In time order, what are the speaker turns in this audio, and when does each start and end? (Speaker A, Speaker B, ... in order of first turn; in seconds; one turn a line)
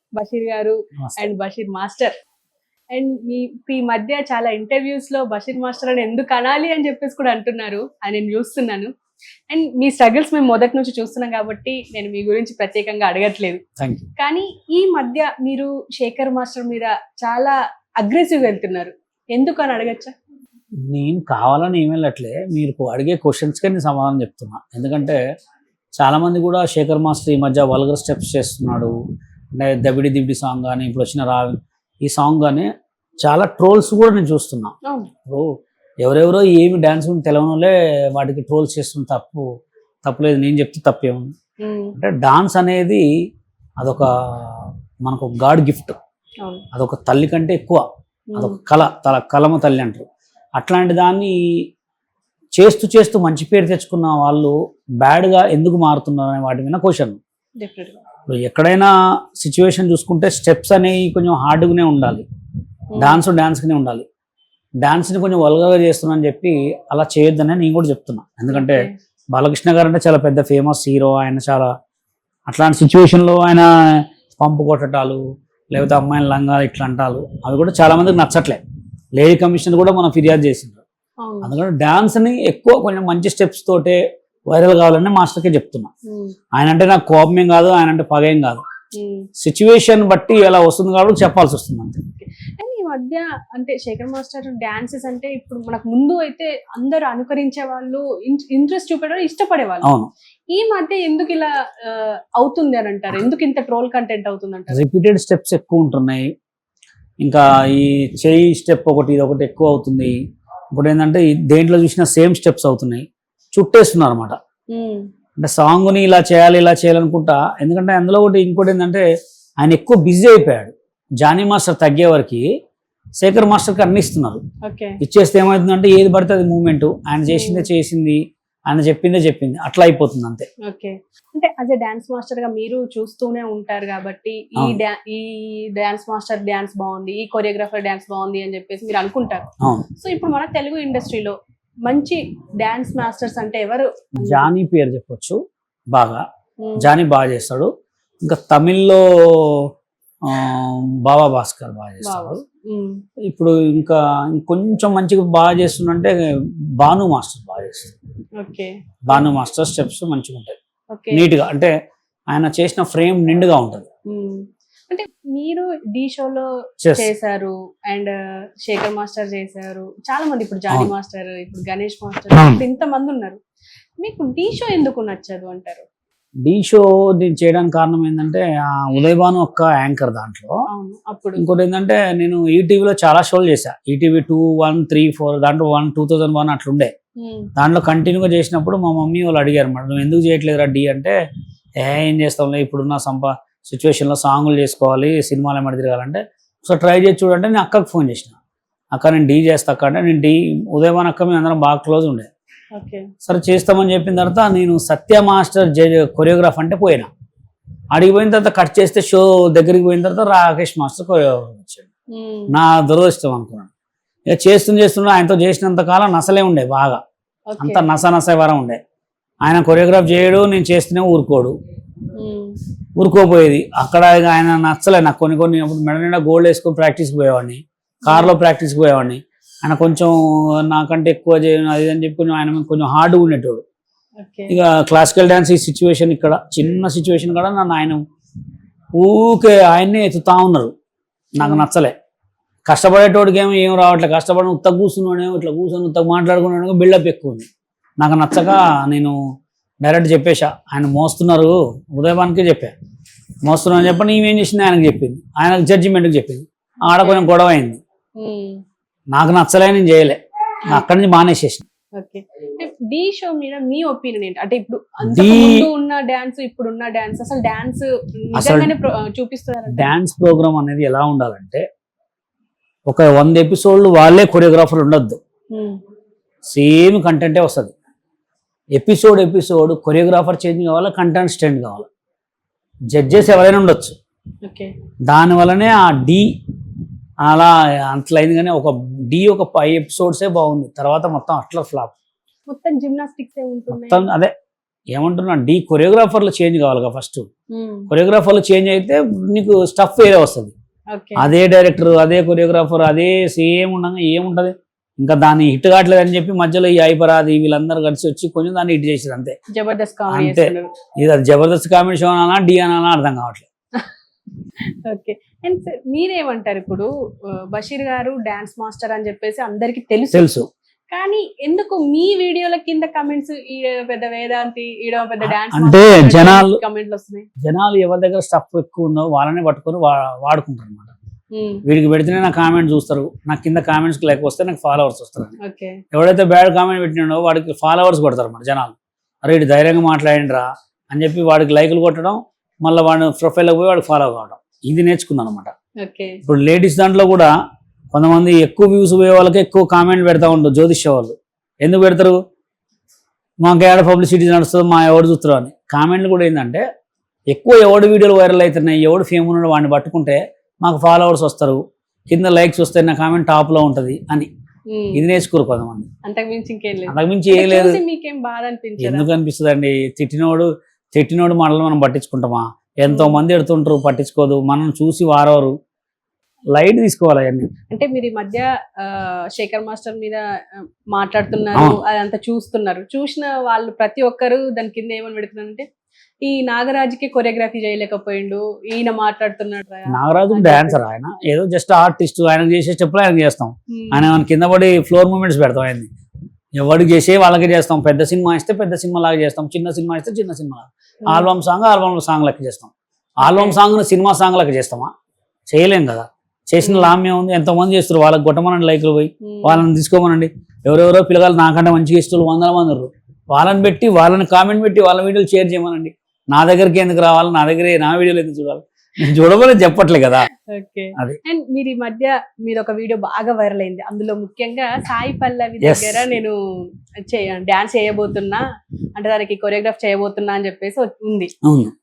Speaker A: 0.2-2.1
Speaker B: 1.0-1.3
Speaker A: 2.9-8.9
Speaker A: 9.5-13.6
Speaker B: 13.8-14.1
Speaker A: 14.2-20.1
Speaker B: 20.9-25.2
Speaker B: 26.0-28.9
Speaker B: 29.6-32.7
Speaker B: 33.2-34.7
Speaker B: 36.0-39.4
Speaker B: 40.0-41.3
Speaker A: 41.6-41.9
Speaker B: 42.0-43.0
Speaker B: 43.8-46.0
Speaker B: 46.7-47.8
Speaker A: 48.3-48.6
Speaker B: 48.4-50.0
Speaker B: 50.6-51.4
Speaker B: 52.6-57.2
Speaker A: 57.6-58.0
Speaker B: 58.3-62.2
Speaker A: 62.9-63.2
Speaker B: 63.0-64.0
Speaker B: 64.8-71.7
Speaker A: 68.5-68.9
Speaker B: 72.5-75.2
Speaker B: 75.7-78.6
Speaker B: 79.2-80.8
Speaker A: 81.2-81.5
Speaker B: 81.4-85.9
Speaker A: 86.1-86.3
Speaker B: 86.5-88.6
Speaker A: 89.0-89.3
Speaker B: 89.4-92.0
Speaker A: 92.2-99.9
Speaker B: 99.8-100.1
Speaker A: 100.5-104.8
Speaker B: 104.7-106.3
Speaker B: 107.2-110.2
Speaker B: 110.7-114.4
Speaker A: 114.7-115.0
Speaker B: 115.4-119.0
Speaker B: 119.6-122.5
Speaker B: 123.2-124.4
Speaker A: 124.6-125.0
Speaker B: 125.0-130.5
Speaker A: 127.3-127.7
Speaker A: 130.7-139.5
Speaker B: 139.6-139.8
Speaker A: 140.0-144.5
Speaker B: 144.2-145.4
Speaker B: 145.9-146.2
Speaker A: 146.6-146.9
Speaker B: 146.8-147.7
Speaker B: 148.2-149.7
Speaker B: 150.2-152.4
Speaker A: 152.0-153.0
Speaker B: 153.2-156.1
Speaker B: 156.8-157.9
Speaker A: 158.4-159.3
Speaker B: 159.1-160.5
Speaker A: 160.9-161.3
Speaker B: 161.1-161.7
Speaker B: 162.3-163.9
Speaker A: 164.1-168.1
Speaker B: 166.8-167.1
Speaker A: 168.7-173.4
Speaker B: 172.3-172.6
Speaker A: 174.0-175.8
Speaker B: 176.4-180.6
Speaker A: 180.7-181.4
Speaker B: 181.4-186.9
Speaker A: 187.2-187.5
Speaker B: 187.6-191.2
Speaker B: 191.8-198.3
Speaker B: 198.9-202.3
Speaker A: 202.7-203.1
Speaker B: 203.2-207.1
Speaker B: 207.9-211.9
Speaker A: 212.1-212.5
Speaker B: 212.5-213.7
Speaker B: 214.3-217.0
Speaker A: 217.5-217.8
Speaker B: 217.6-218.8
Speaker B: 219.4-221.5
Speaker A: 222.2-222.6
Speaker B: 223.0-233.6
Speaker A: 228.1-228.3
Speaker A: 234.2-234.5
Speaker B: 234.5-238.0
Speaker B: 238.9-240.7
Speaker B: 241.4-241.9
Speaker A: 241.4-241.7
Speaker B: 242.7-247.5
Speaker B: 248.0-249.2
Speaker B: 249.8-252.7
Speaker B: 253.4-257.8
Speaker A: 256.9-257.3
Speaker A: 258.2-258.6
Speaker B: 259.1-261.6
Speaker A: 262.0-269.9
Speaker B: 265.0-265.7
Speaker B: 268.3-268.7
Speaker B: 269.7-271.6
Speaker B: 272.9-275.2
Speaker A: 275.5-275.8
Speaker B: 276.5-277.7
Speaker B: 278.8-281.9
Speaker B: 282.9-283.9
Speaker A: 284.4-284.7
Speaker B: 285.1-286.3
Speaker B: 287.2-291.9
Speaker A: 292.5-294.1
Speaker B: 293.7-294.3
Speaker B: 294.9-297.3
Speaker A: 297.5-297.9
Speaker B: 297.9-300.5
Speaker A: 300.9-301.2
Speaker B: 301.2-309.4
Speaker A: 309.5-310.7
Speaker B: 310.1-313.5
Speaker A: 314.8-320.3
Speaker B: 320.1-320.5
Speaker A: 320.9-327.3
Speaker B: 325.2-326.6
Speaker B: 327.4-330.9
Speaker A: 331.3-331.6
Speaker B: 331.6-335.3
Speaker A: 335.4-335.8
Speaker B: 335.9-345.5
Speaker A: 345.8-346.2
Speaker B: 346.2-347.3
Speaker B: 347.9-352.2
Speaker B: 353.4-356.6
Speaker B: 357.3-364.3
Speaker A: 364.7-365.0
Speaker B: 364.9-365.9
Speaker A: 366.0-369.1
Speaker B: 366.9-367.8
Speaker B: 368.8-375.5
Speaker A: 372.9-373.2
Speaker B: 376.5-377.5
Speaker A: 377.7-385.6
Speaker A: 386.2-390.8
Speaker B: 389.9-395.9
Speaker A: 393.7-394.0
Speaker B: 396.6-404.9
Speaker A: 403.2-403.6
Speaker B: 405.5-420.3
Speaker A: 406.6-406.9
Speaker A: 409.2-409.6
Speaker A: 420.5-426.3
Speaker B: 425.6-426.1
Speaker A: 427.1-428.4
Speaker A: 429.0-431.3
Speaker B: 431.4-431.7